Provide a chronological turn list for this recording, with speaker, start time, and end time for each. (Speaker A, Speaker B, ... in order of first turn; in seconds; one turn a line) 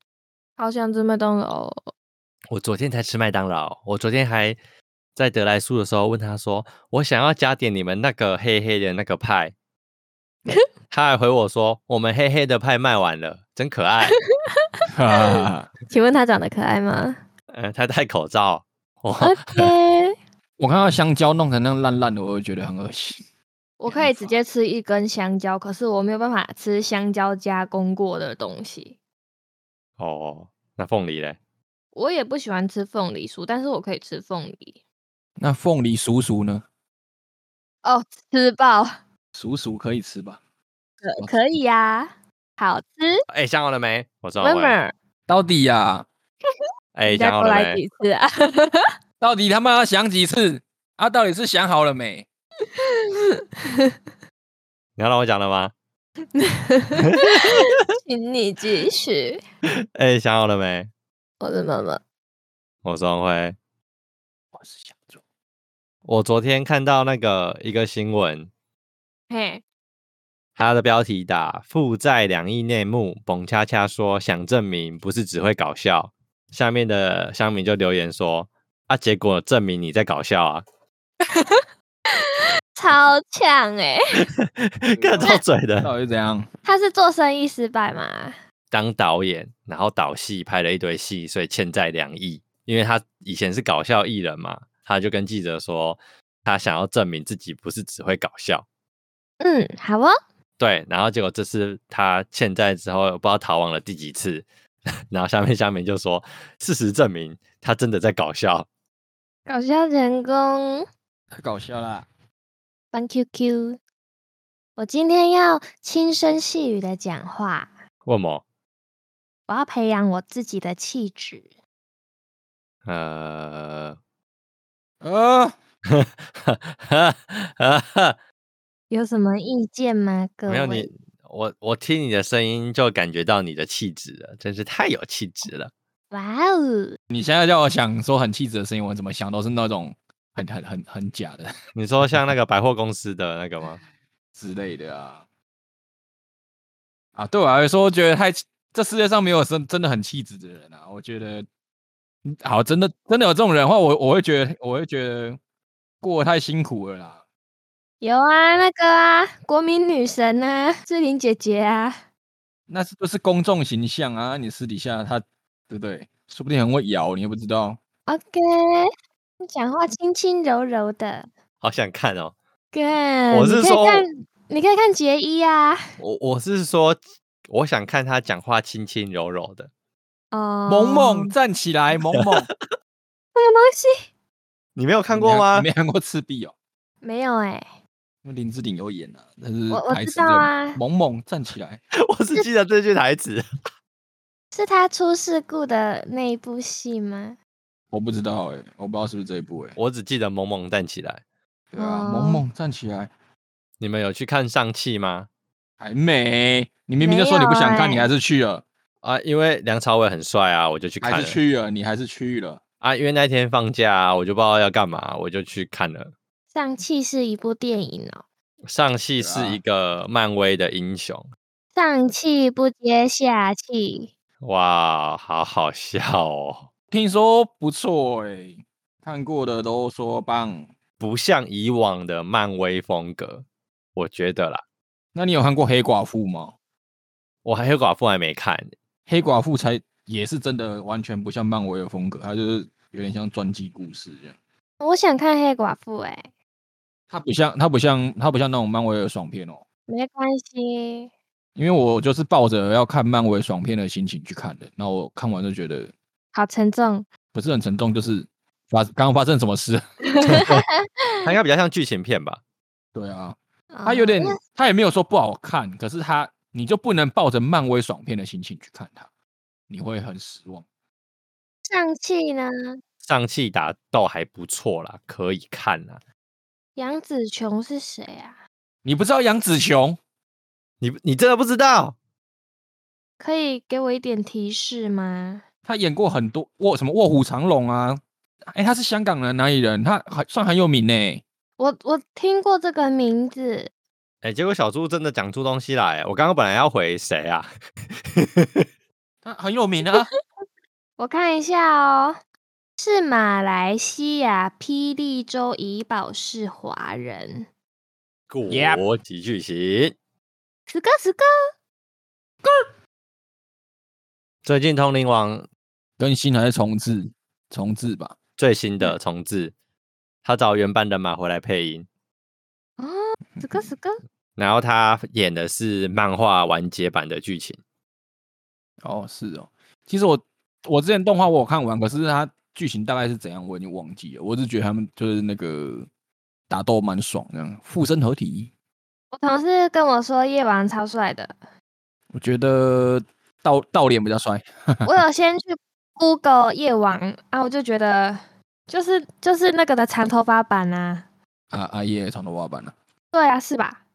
Speaker A: 0.6-1.9
Speaker B: 2.5-4.6
Speaker B: 5.2-9.5
Speaker B: 10.9-14.2
Speaker C: 14.9-15.7
Speaker A: 15.1-15.4
Speaker A: 15.9-17.2
Speaker B: 17.5-19.7
Speaker A: 19.2-20.1
Speaker C: 20.6-23.2
Speaker A: 23.8-28.9
Speaker C: 23.9-24.3
Speaker B: 30.0-31.4
Speaker A: 31.9-34.8
Speaker C: 35.4-36.6
Speaker A: 37.8-39.0
Speaker C: 39.3-40.4
Speaker A: 41.0-43.2
Speaker C: 41.2-41.4
Speaker B: 43.3-44.8
Speaker A: 44.4-44.9
Speaker C: 45.3-46.0
Speaker B: 46.9-47.8
Speaker A: 47.1-48.9
Speaker C: 49.2-52.2
Speaker A: 52.8-53.9
Speaker B: 55.0-55.7
Speaker A: 56.4-59.4
Speaker B: 57.0-57.7
Speaker B: 60.0-60.9
Speaker A: 61.4-62.0
Speaker B: 62.8-63.5
Speaker C: 64.5-65.2
Speaker B: 66.0-68.5
Speaker A: 69.3-69.6
Speaker B: 70.6-80.6
Speaker A: 81.3-81.6
Speaker A: 82.8-84.2
Speaker B: 84.2-85.9
Speaker C: 85.0-86.5
Speaker A: 86.6-88.3
Speaker B: 88.7-98.6
Speaker A: 99.4-100.1
Speaker B: 100.6-104.4
Speaker B: 105.1-108.7
Speaker A: 109.5-110.8
Speaker C: 111.3-112.0
Speaker A: 112.9-113.8
Speaker A: 114.8-117.7
Speaker B: 118.0-118.4
Speaker A: 119.5-121.5
Speaker B: 122.8-124.0
Speaker C: 125.0-125.5
Speaker B: 125.9-128.2
Speaker A: 128.9-130.9
Speaker B: 130.5-135.7
Speaker A: 136.1-137.0
Speaker C: 137.1-141.5
Speaker B: 141.8-143.8
Speaker C: 144.3-145.2
Speaker C: 147.2-151.5
Speaker C: 152.2-155.4
Speaker C: 156.0-157.2
Speaker A: 158.0-162.0
Speaker C: 162.7-167.8
Speaker A: 168.1-168.9
Speaker A: 169.4-171.3
Speaker B: 171.6-172.3
Speaker A: 172.7-175.8
Speaker B: 173.3-174.1
Speaker B: 176.0-179.7
Speaker A: 180.3-181.3
Speaker C: 180.7-182.5
Speaker A: 183.3-184.1
Speaker B: 184.8-185.7
Speaker C: 185.1-186.5
Speaker A: 187.0-187.6
Speaker C: 188.2-191.8
Speaker A: 189.7-190.8
Speaker B: 191.9-193.4
Speaker A: 194.5-197.3
Speaker C: 197.9-199.8
Speaker B: 199.8-201.2
Speaker C: 201.7-203.1
Speaker A: 201.8-202.4
Speaker B: 203.8-205.3
Speaker C: 205.8-208.6
Speaker A: 207.0-208.1
Speaker B: 209.0-211.4
Speaker C: 211.0-212.6
Speaker B: 212.8-216.1
Speaker A: 216.5-218.2
Speaker B: 218.7-221.2
Speaker C: 219.2-219.6
Speaker A: 221.8-224.1
Speaker B: 224.4-226.7
Speaker C: 226.9-230.7
Speaker B: 231.0-233.4
Speaker B: 233.9-234.6
Speaker C: 235.1-236.5
Speaker B: 237.4-238.7
Speaker C: 239.1-244.3
Speaker A: 244.8-246.3
Speaker C: 247.1-249.6
Speaker A: 249.9-251.1
Speaker C: 251.6-255.9
Speaker A: 256.3-257.1
Speaker C: 257.3-259.8
Speaker A: 260.1-261.2
Speaker B: 261.2-262.4
Speaker C: 262.9-269.1
Speaker A: 263.7-264.4
Speaker C: 269.7-270.6
Speaker A: 271.6-272.8
Speaker B: 273.0-276.0
Speaker A: 276.8-278.4
Speaker C: 278.8-280.0
Speaker B: 280.8-281.9
Speaker A: 283.2-285.4
Speaker C: 285.6-291.2
Speaker A: 291.6-293.7
Speaker B: 294.2-298.6
Speaker C: 299.2-300.1
Speaker A: 301.0-302.2
Speaker A: 302.8-307.5
Speaker B: 308.3-309.9
Speaker C: 308.5-308.8
Speaker A: 310.7-311.3
Speaker B: 314.4-315.4
Speaker C: 316.0-318.2
Speaker B: 318.4-319.5
Speaker B: 320.2-321.9
Speaker A: 322.8-324.0
Speaker C: 323.4-323.6
Speaker B: 324.4-327.6
Speaker C: 328.8-335.9
Speaker C: 336.5-338.5
Speaker A: 339.1-341.3
Speaker C: 342.1-344.9
Speaker A: 344.8-351.0
Speaker C: 351.5-352.7
Speaker A: 353.1-353.8